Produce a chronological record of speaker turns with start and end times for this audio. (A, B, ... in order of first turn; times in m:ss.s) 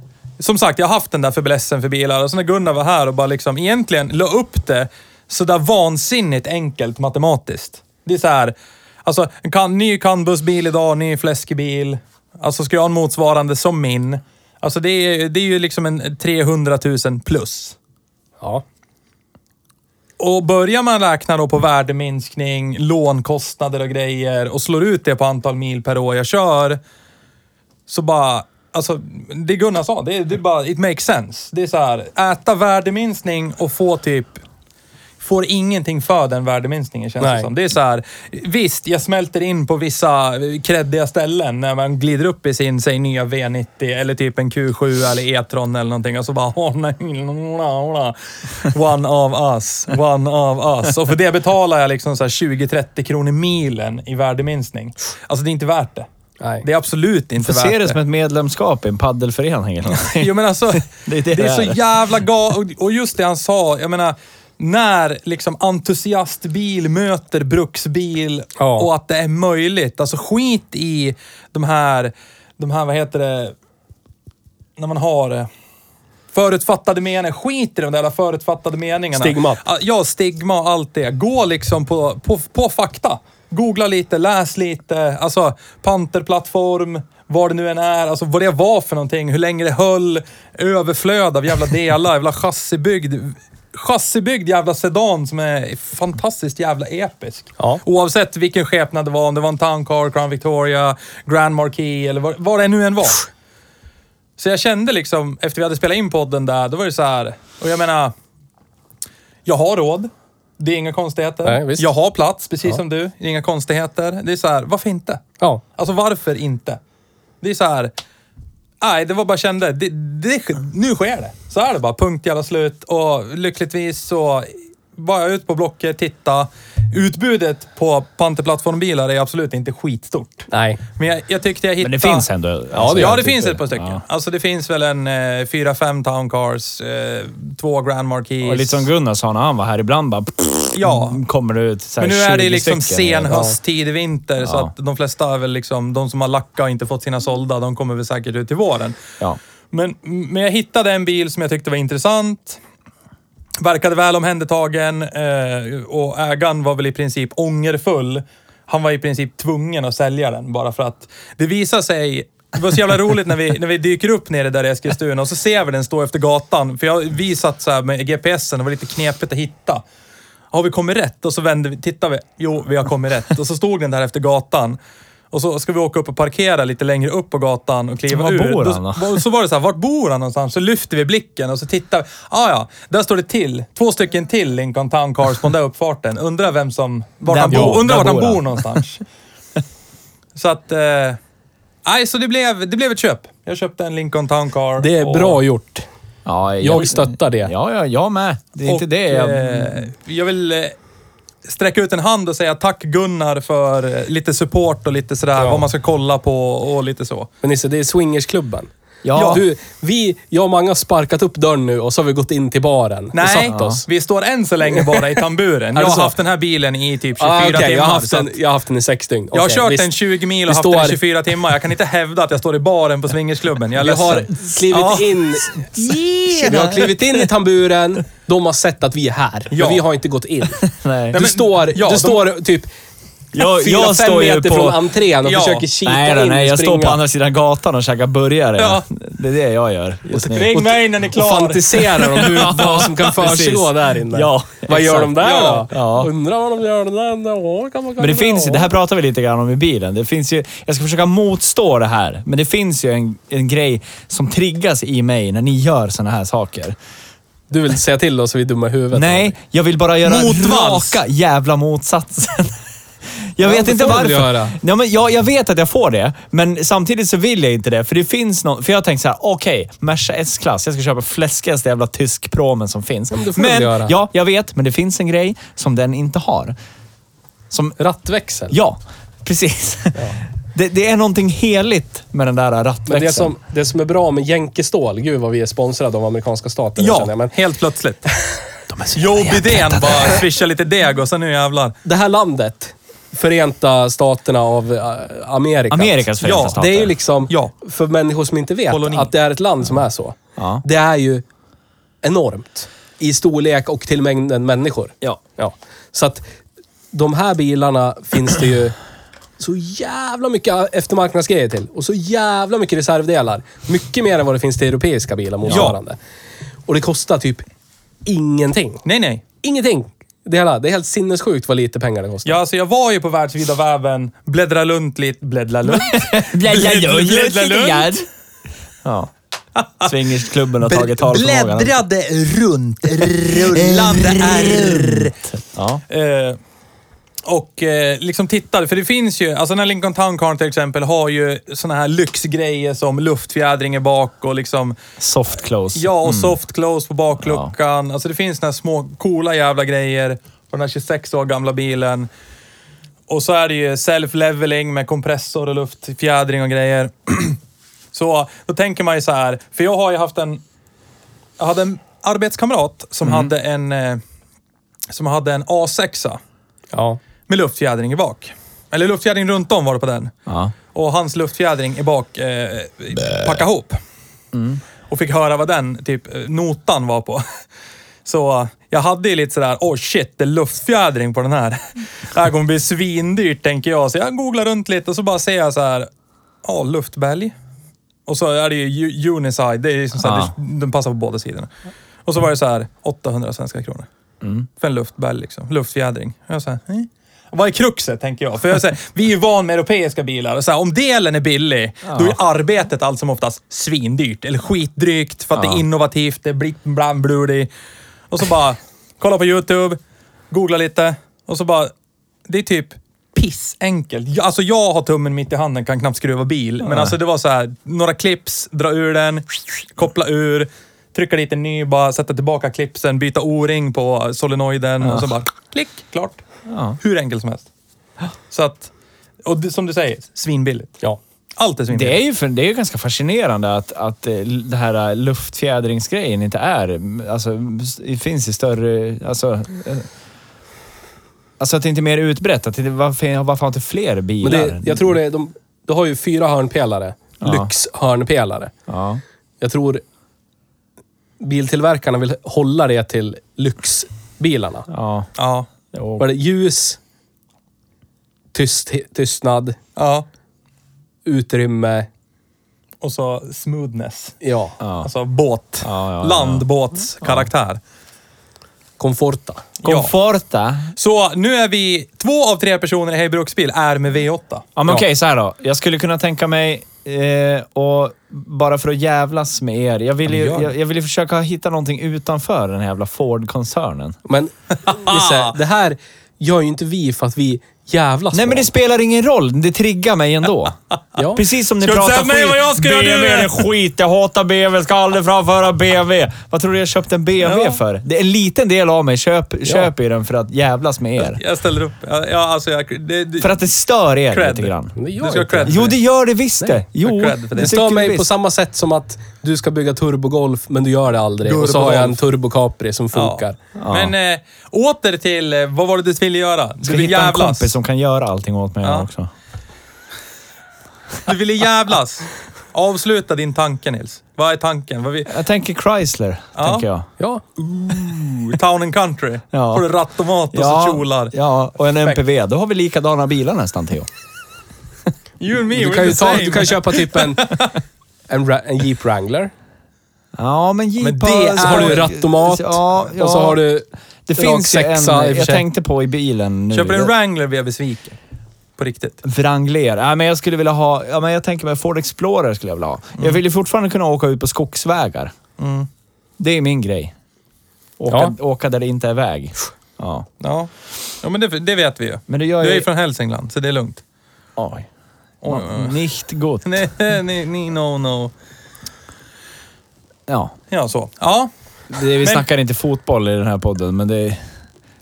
0:00.4-0:17.8 A
0:20.2-0:26.8 A
0:27.9-0:34.4 A
0:35.2-0:56.1 A
0:37.2-0:37.5 B
0:56.6-0:58.0 A
0:57.4-1:01.8 C
0:59.9-1:13.6 A
1:08.6-1:08.9 B
1:14.8-1:15.5 A
1:16.3-1:43.3 A
1:19.2-1:19.6 B
1:44.4-1:48.1 A
1:49.4-1:55.2 A
1:51.4-1:51.9 B
1:55.8-1:56.8 A
1:57.4-1:57.9 A
1:58.8-2:12.3 A
2:10.5-2:10.8 B
2:11.8-2:14.0 C
2:12.7-2:13.4 B
2:12.9-2:18.9 A
2:18.4-2:23.4 C
2:20.7-2:21.2 A
2:22.0-2:29.0 A
2:24.4-2:24.7 C
2:29.7-2:32.6 A
2:33.6-2:49.8 A
2:50.5-2:54.8 A
2:55.3-3:09.0 A
2:58.1-2:59.2 C
3:07.3-3:08.8 C
3:10.4-3:11.2 A
3:11.9-3:15.4 A
3:14.8-3:15.9 B
3:16.3-3:19.8 C
3:16.6-3:17.5 B
3:18.6-3:20.8 A
3:21.4-3:27.3 A
3:25.4-3:25.6 B
3:27.4-3:33.8 B
3:29.0-3:29.4 C
3:29.1-3:29.4 A
3:33.1-3:38.4 A
3:33.5-3:33.8 C
3:35.8-3:36.1 B
3:37.2-3:39.9 B
3:39.3-3:46.9 A
3:40.5-3:41.0 B
3:43.8-3:52.7 B
3:46.4-3:46.8 C
3:49.5-3:49.8 A
3:50.6-3:51.2 C
3:51.1-3:52.3 A
3:53.3-3:54.8 C
3:53.4-3:57.0 B
3:55.2-3:55.6 A
3:55.8-4:00.5 C
3:58.6-3:58.8 A
4:00.1-4:08.7 B
4:00.3-4:03.0 A
4:02.2-4:06.1 C
4:05.2-4:05.7 A
4:08.0-4:16.8 C
4:17.5-4:19.4 B
4:18.9-4:22.6 C
4:20.0-4:21.0 A
4:23.2-4:36.5 C
4:23.4-4:24.6 B
4:33.1-4:33.9 B
4:37.5-4:37.8 C
4:37.8-4:38.6 B
4:38.5-4:43.3 C
4:42.9-4:47.3 B
4:46.8-4:48.1 A
4:48.7-4:50.2 C
4:48.9-4:51.8 A
4:51.8-5:01.2 B
4:55.7-4:56.9 C
4:56.2-4:56.6 A
4:57.3-4:57.5 A
4:58.7-4:59.1 A
5:00.4-5:00.6 C
5:02.0-5:06.2 B
5:06.9-5:08.8 B
5:09.4-5:16.0 B
5:15.4-5:15.7 C
5:15.5-5:15.8 A
5:16.7-5:17.4 B
5:18.1-5:18.8 B
5:18.8-5:19.2 A
5:19.4-5:22.4 B
5:22.2-5:27.9 A
5:25.7-5:28.0 C
5:28.8-5:29.1 C
5:29.6-5:29.9 A
5:29.8-5:31.8 C
5:30.6-5:35.1 A
5:33.4-5:35.8 C
5:35.9-5:36.4 A
5:37.3-5:44.8 A
5:45.0-5:46.4 C
5:45.7-5:52.1 A
5:47.2-5:47.5 C
5:53.1-5:57.4 A
5:57.9-6:00.4 A
6:01.4-6:04.0 A
6:03.0-6:03.3 C
6:04.9-6:06.2 A
6:06.7-6:07.0 B
6:07.3-6:10.1 A
6:10.3-6:10.5 C
6:10.7-6:13.8 A
6:14.3-6:14.6 C
6:14.9-6:17.2 A
6:18.0-6:25.9 A
6:26.4-6:27.3 A
6:28.1-6:31.5 A
6:30.0-6:30.3 C
6:32.1-6:33.9 A
6:34.6-6:47.5 A
6:41.9-6:42.2 C
6:45.4-6:45.6 C
6:48.1-6:49.8 A
6:50.3-6:51.7 A
6:52.3-7:06.2 A
6:56.6-6:56.9 C
7:04.8-7:05.1 C
7:06.5-7:06.8 C
7:06.8-7:07.5 A
7:08.3-7:08.7 A
7:09.2-7:10.7 A
7:11.4-7:12.0 A
7:11.7-7:19.9 C
7:21.4-7:25.0 C
7:24.2-7:28.5 B
7:27.2-7:27.5 C
7:28.7-7:29.0 C
7:29.4-7:29.8 B
7:31.2-7:34.7 B
7:34.7-7:35.1 C
7:35.2-7:35.5 A
7:35.7-7:36.1 C
7:36.0-7:36.8 B
7:38.3-7:39.6 B
7:39.8-7:40.1 A
7:41.0-7:41.9 B
7:42.8-7:44.2 A
7:44.2-7:44.6 B
7:44.6-7:44.9 C
7:44.8-7:47.6 A
7:45.6-7:46.4 C
7:47.0-7:47.3 C
7:48.8-7:49.5 B
7:49.6-7:49.9 A
7:49.6-7:50.7 C
7:50.8-7:54.5 A
7:54.6-8:04.0 C
8:00.1-8:00.5 A
8:04.1-8:08.5 B
8:04.6-8:05.4 A
8:08.1-8:10.6 C
8:11.0-8:11.2 B
8:11.1-8:21.2 C
8:11.6-8:13.4 A
8:17.2-8:17.6 A
8:21.2-8:23.4 A
8:23.2-8:24.8 C
8:24.1-8:25.8 A
8:24.8-8:25.7 B
8:25.4-8:28.1 C
8:26.8-8:27.5 A
8:27.4-8:33.4 B
8:31.2-8:32.0 A
8:32.9-8:37.5 A
8:33.6-8:33.9 C
8:36.6-8:39.1 C
8:41.0-8:45.1 A
8:45.1-8:46.9 C
8:46.4-8:46.6 A
8:47.7-8:48.3 C
8:48.3-8:51.1 A
8:49.3-8:49.6 C
8:50.3-8:53.9 C
8:55.2-8:57.6 A
8:55.5-8:57.4 B
8:58.1-8:59.3 B
9:00.2-9:03.4 C
9:00.8-9:01.9 A
9:01.0-9:05.4 B
9:04.1-9:06.9 C
9:06.5-9:08.0 A
9:08.6-9:09.0 A
9:09.0-9:15.1 C
9:15.4-9:15.7 A
9:16.2-9:16.9 C
9:17.8-9:20.1 C
9:20.2-9:20.5 A
9:21.0-9:23.8 A
9:22.1-9:22.7 C
9:24.4-9:24.7 C
9:25.2-9:25.8 A
9:25.3-9:26.5 C
9:26.4-9:28.1 A
9:30.1-9:30.4 C
9:30.5-9:31.3 A
9:31.7-9:34.2 C
9:32.0-9:32.2 A